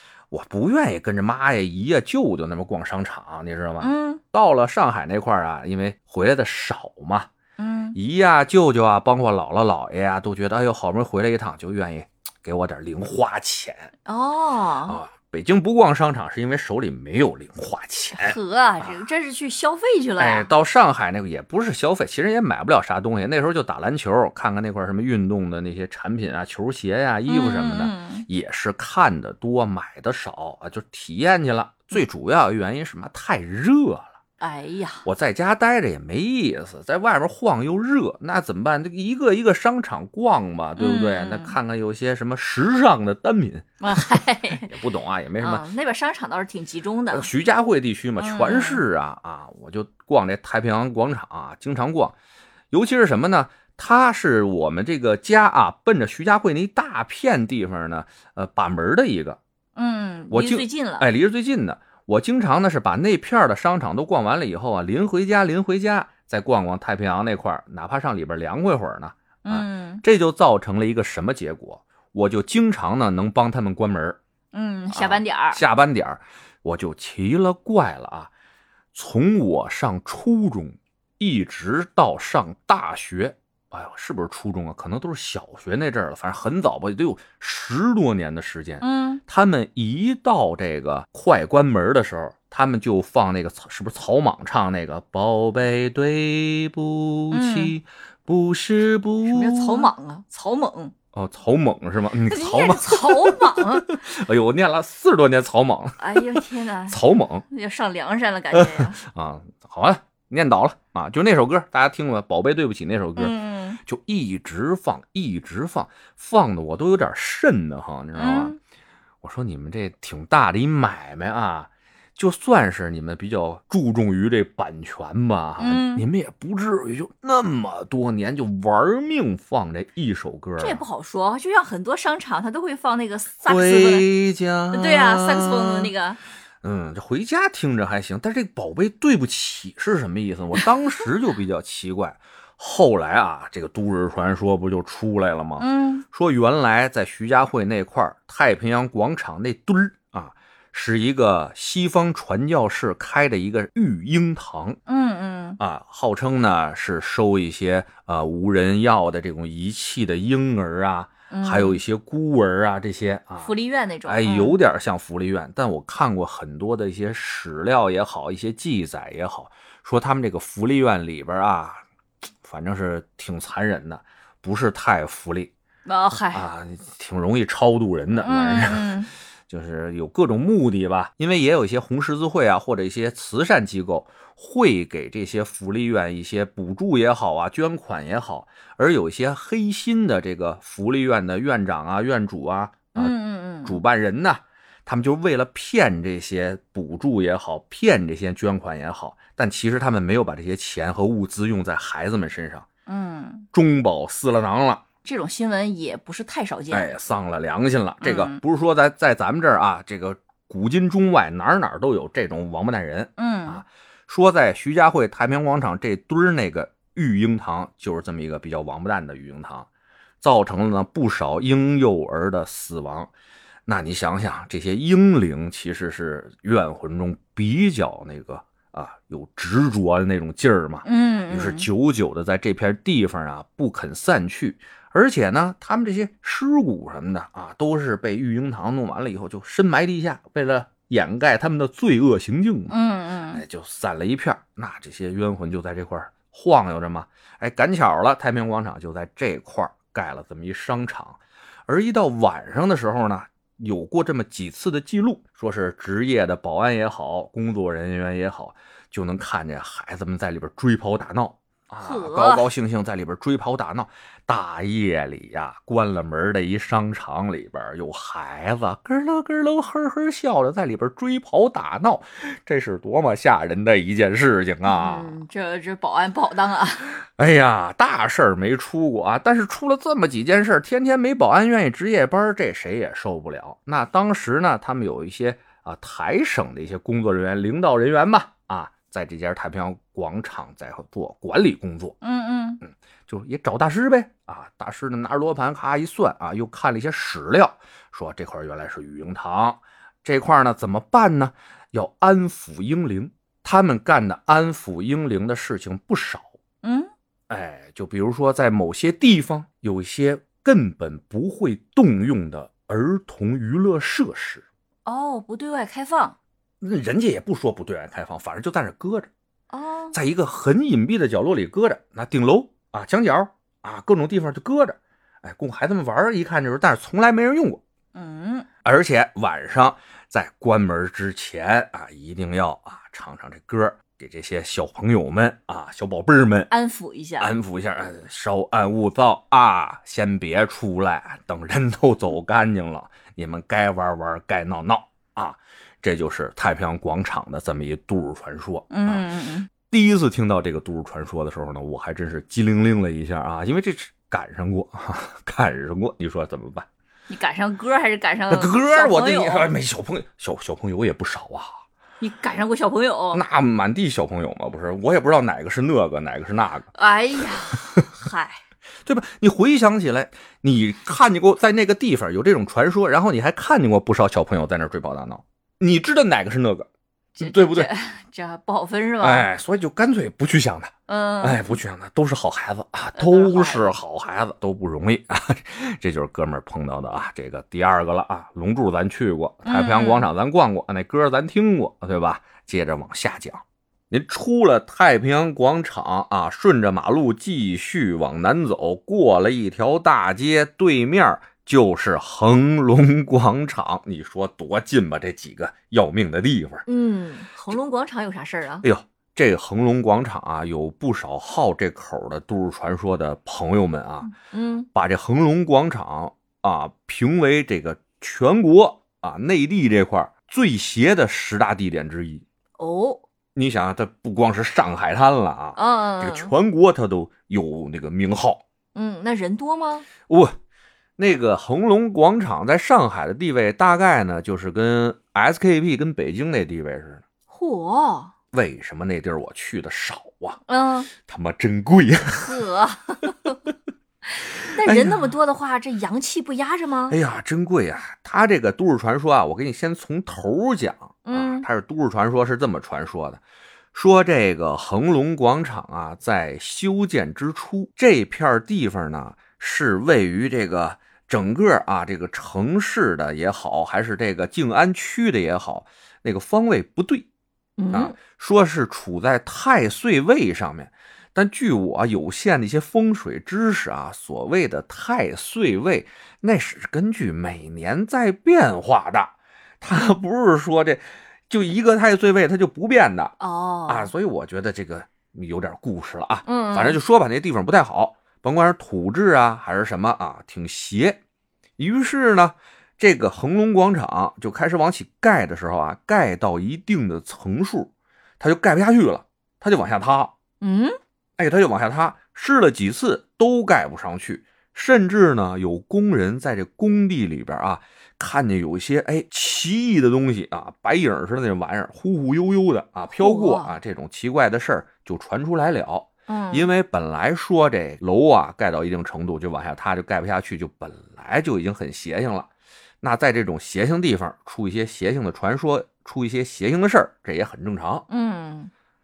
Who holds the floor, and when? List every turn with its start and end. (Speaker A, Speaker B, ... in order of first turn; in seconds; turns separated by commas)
Speaker A: 0.3-7.3, Speaker B: 3.8-4.2, Speaker B: 7.6-8.0, Speaker A: 7.9-13.9, Speaker B: 14.1-15.0, Speaker A: 14.9-18.9, Speaker B: 18.2-20.5, Speaker A: 20.2-34.1, Speaker B: 27.3-28.3, Speaker B: 34.4-35.0, Speaker A: 35.0-45.6, Speaker B: 40.8-41.5, Speaker B: 43.8-44.7, Speaker B: 45.4-47.3, Speaker A: 47.1-52.1, Speaker B: 48.2-48.8, Speaker A: 52.7-59.4, Speaker B: 59.8-61.0, Speaker A: 60.3-74.2, Speaker B: 69.4-70.0, Speaker B: 74.5-75.6, Speaker A: 74.9-78.3, Speaker A: 78.9-99.9, Speaker B: 88.8-89.2, Speaker B: 97.3-97.7, Speaker B: 99.2-100.9, Speaker A: 101.1-107.4, Speaker B: 102.3-103.9, Speaker B: 106.0-109.0, Speaker A: 108.5-118.5, Speaker B: 113.2-113.8, Speaker B: 118.2-118.6, Speaker A: 119.2-130.8, Speaker B: 125.6-126.0, Speaker B: 130.6-134.1, Speaker A: 133.4-135.9, Speaker B: 134.7-136.2, Speaker A: 136.6-154.8, Speaker B: 145.6-146.0, Speaker B: 154.9-155.6, Speaker A: 155.6-163.5, Speaker B: 161.3-161.8, Speaker B: 163.4-164.6, Speaker A: 164.1-171.8, Speaker A: 172.4-175.5, Speaker B: 175.8-176.4, Speaker A: 176.3-178.9, Speaker B: 178.2-179.1, Speaker A: 179.5-193.1, Speaker B: 192.9-193.8, Speaker A: 193.6-202.7, Speaker B: 202.9-203.5, Speaker A: 203.5-204.8, Speaker B: 205.0-206.9, Speaker A: 206.7-219.7, Speaker B: 208.0-208.4, Speaker B: 213.2-213.6, Speaker A: 220.2-223.1, Speaker A: 223.7-242.8, Speaker B: 230.8-231.7, Speaker B: 242.7-243.4, Speaker A: 243.3-275.2, Speaker B: 261.8-262.5, Speaker B: 274.6-277.0, Speaker A: 277.1-291.9, Speaker B: 292.0-292.6, Speaker A: 292.6-306.3, Speaker B: 306.6-306.9, Speaker A: 307.3-314.4, Speaker B: 314.9-316.1, Speaker A: 316.6-319.1, Speaker B: 319.5-319.9, Speaker A: 319.9-327.6, Speaker B: 327.9-328.5, Speaker A: 328.6-336.5, Speaker B: 336.5-337.3, Speaker A: 337.2-349.0, Speaker B: 348.7-349.5, Speaker A: 349.6-356.7, Speaker B: 357.1-359.5, Speaker A: 358.3-361.6, Speaker B: 362.0-363.2, Speaker A: 363.1-366.7, Speaker B: 366.7-368.4, Speaker A: 368.9-376.7, Speaker B: 377.2-379.3, Speaker A: 377.2-377.7, Speaker A: 379.0-406.7, Speaker B: 380.9-381.6, Speaker B: 383.0-383.7, Speaker B: 389.4-390.1, Speaker B: 406.7-408.6, Speaker A: 408.6-414.1, Speaker B: 414.1-414.7, Speaker A: 414.7-422.2, Speaker B: 422.6-423.0, Speaker A: 423.3-428.4, Speaker B: 425.6-426.3, Speaker B: 428.7-429.9, Speaker A: 430.1-430.4, Speaker A: 431.0-437.0, Speaker B: 437.3-438.1, Speaker A: 438.3-440.4, Speaker B: 440.5-440.9, Speaker A: 441.0-442.4, Speaker B: 442.1-443.4, Speaker B: 444.1-446.9, Speaker A: 444.6-445.1, Speaker A: 446.9-453.2, Speaker B: 451.1-451.5, Speaker A: 453.7-467.1, Speaker B: 467.6-467.9, Speaker A: 467.7-483.1, Speaker B: 483.2-483.9, Speaker A: 483.7-491.0, Speaker B: 486.2-486.8, Speaker A: 491.6-500.1, Speaker B: 500.4-500.8, Speaker A: 501.2-522.3, Speaker B: 512.9-513.5, Speaker B: 516.1-516.5, Speaker A: 522.8-527.9, Speaker B: 527.9-528.5